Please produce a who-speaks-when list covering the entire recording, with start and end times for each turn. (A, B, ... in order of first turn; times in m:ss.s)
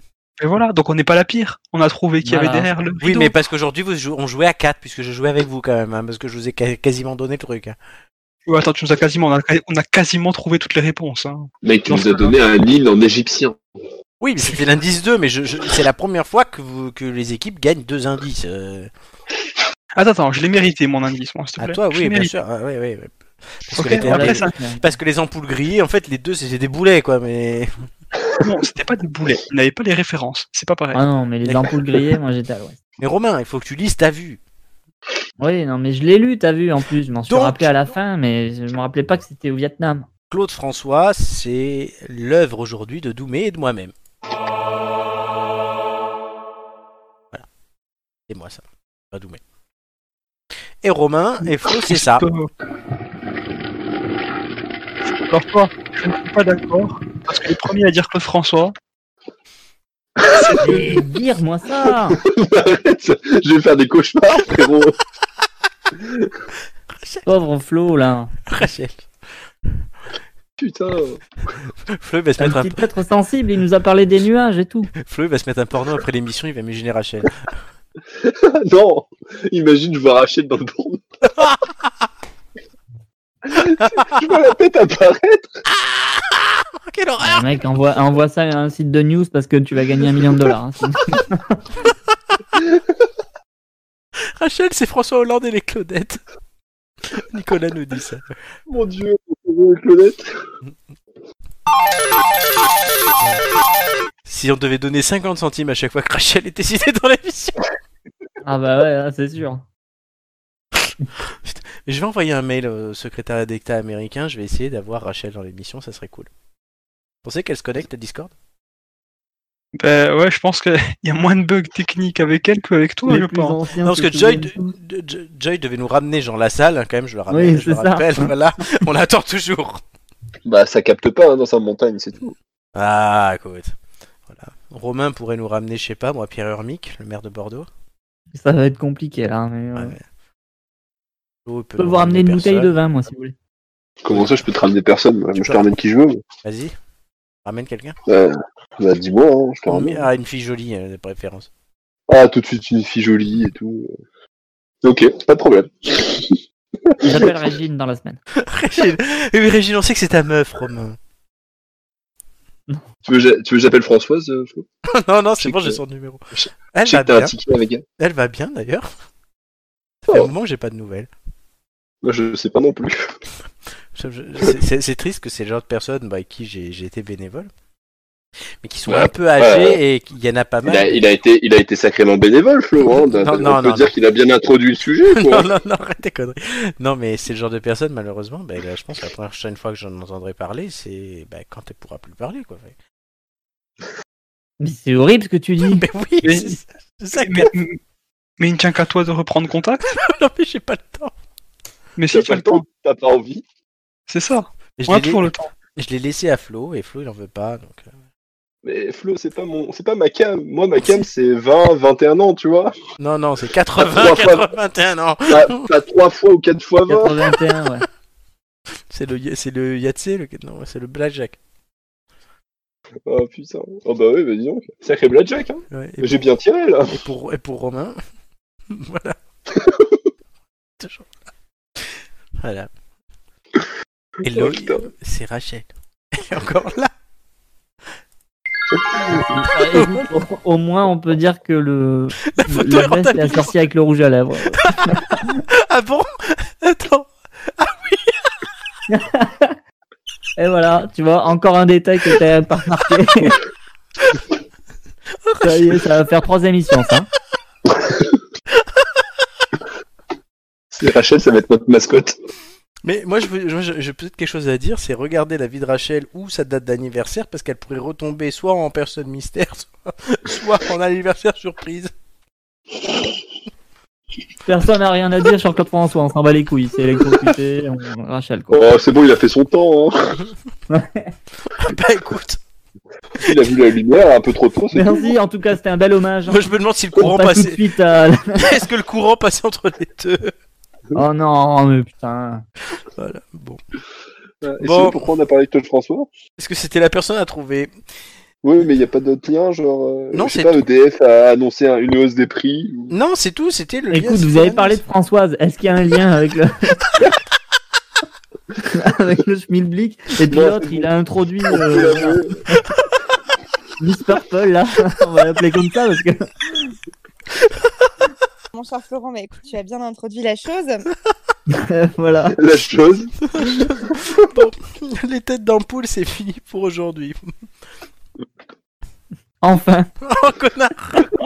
0:00.4-0:03.3 A
0:02.2-0:02.7 B
0:03.0-0:07.8 C
0:08.5-0:12.4 A
0:11.6-0:13.6 D
0:14.2-0:18.9 C
0:20.0-0:22.3 A
0:21.6-0:27.8 C
0:23.8-0:24.5 A
0:23.8-0:25.0 B
0:28.4-0:31.0 A
0:30.9-0:32.8 B
0:31.4-0:31.8 C
0:33.0-0:34.4 C
0:35.4-0:40.1 B
0:37.3-0:37.9 C
0:40.3-0:43.9 C
0:48.3-0:49.4 C
0:50.8-0:52.3 C
0:51.6-0:52.5 A
0:55.3-0:58.8 A
1:00.3-1:00.8 D
1:00.6-1:02.2 B
1:02.1-1:05.0 D
1:06.0-1:06.3 D
1:06.9-1:07.3 C
1:07.3-1:08.3 B
1:08.5-1:09.1 C
1:10.6-1:11.2 D
1:11.9-1:12.8 C
1:12.4-1:14.9 B
1:15.0-1:17.5 C
1:18.2-1:21.0 D
1:21.4-1:22.0 C
1:23.5-1:25.5 D
1:23.6-1:24.4 C
1:25.7-1:27.5 C
1:27.2-1:31.9 B
1:34.2-1:36.2 C
1:37.0-1:38.4 C
1:38.7-1:40.3 D
1:44.3-1:47.6 C
1:48.4-1:49.6 B
1:51.2-1:56.3 C
1:57.2-1:58.3 C
1:59.8-2:03.6 A
2:03.1-2:04.7 B
2:03.8-2:09.8 C
2:07.3-2:08.3 B
2:10.4-2:12.4 D
2:12.8-2:13.8 C
2:14.3-2:17.7 C
2:18.3-2:20.0 B
2:19.8-2:20.0 C
2:21.4-2:22.7 C
2:21.8-2:23.4 B
2:24.0-2:26.2 D
2:24.1-2:24.4 C
2:25.4-2:25.7 C
2:26.4-2:26.8 C
2:27.4-2:28.0 C
2:28.1-2:30.1 D
2:29.7-2:31.5 C
2:32.1-2:33.9 D
2:34.8-2:37.3 D
2:37.0-2:38.2 B
2:38.4-2:41.0 C
2:43.0-2:44.7 D
2:44.9-2:47.3 C
2:45.4-2:45.8 D
2:46.4-2:47.8 D
2:48.0-2:48.9 C
2:50.0-2:51.1 C
2:52.0-2:53.1 D
2:53.9-2:57.5 C
2:58.6-3:01.0 C
2:58.9-2:59.8 D
3:00.6-3:05.5 D
3:02.8-3:03.9 C
3:05.1-3:12.8 C
3:14.6-3:15.9 B
3:15.6-3:17.5 C
3:16.2-3:16.6 A
3:17.1-3:17.8 A
3:18.4-3:20.0 A
3:19.9-3:21.1 C
3:22.0-3:22.6 A
3:22.1-3:23.4 D
3:24.1-3:25.5 A
3:24.8-3:27.9 C
3:28.6-3:32.8 D
3:33.0-3:35.7 C
3:33.8-3:34.4 D
3:35.3-3:37.1 D
3:36.9-3:37.9 B
3:38.9-3:41.4 C
3:43.1-3:46.9 D
3:45.7-3:46.2 C
3:46.8-3:48.0 C
3:48.7-3:49.2 C
3:49.6-3:49.9 D
3:50.8-3:51.1 C
3:51.8-3:52.7 C
3:54.2-3:56.9 C
3:54.2-3:54.8 D
3:59.3-4:05.4 B
3:59.5-4:00.1 C
4:02.3-4:03.6 C
4:04.6-4:08.2 C
4:08.9-4:09.6 B
4:10.4-4:13.4 B
4:15.2-4:15.8 C
4:15.4-4:17.1 B
4:20.7-4:22.2 D
4:22.8-4:31.9 C
4:34.5-4:38.7 B
4:38.5-4:40.2 D
4:40.7-4:41.1 B
4:41.5-4:42.4 C
4:43.2-4:45.1 D
4:44.7-4:48.6 B
4:46.3-4:47.6 C
4:48.3-4:50.3 C
4:51.0-4:52.4 B
4:53.0-4:53.6 C
4:54.4-4:56.1 D
4:54.6-4:55.1 C
4:56.4-4:57.8 C
4:58.4-5:02.9 D
5:00.1-5:00.7 C
5:02.9-5:04.8 C
5:03.9-5:07.1 B
5:08.6-5:12.8 B
5:10.3-5:10.9 D
5:11.5-5:12.4 D
5:13.8-5:16.8 B
5:18.5-5:20.8 E
5:21.5-5:22.4 B
5:22.4-5:23.2 D
5:23.2-5:27.3 C
5:29.4-5:29.9 B
5:30.0-5:31.1 C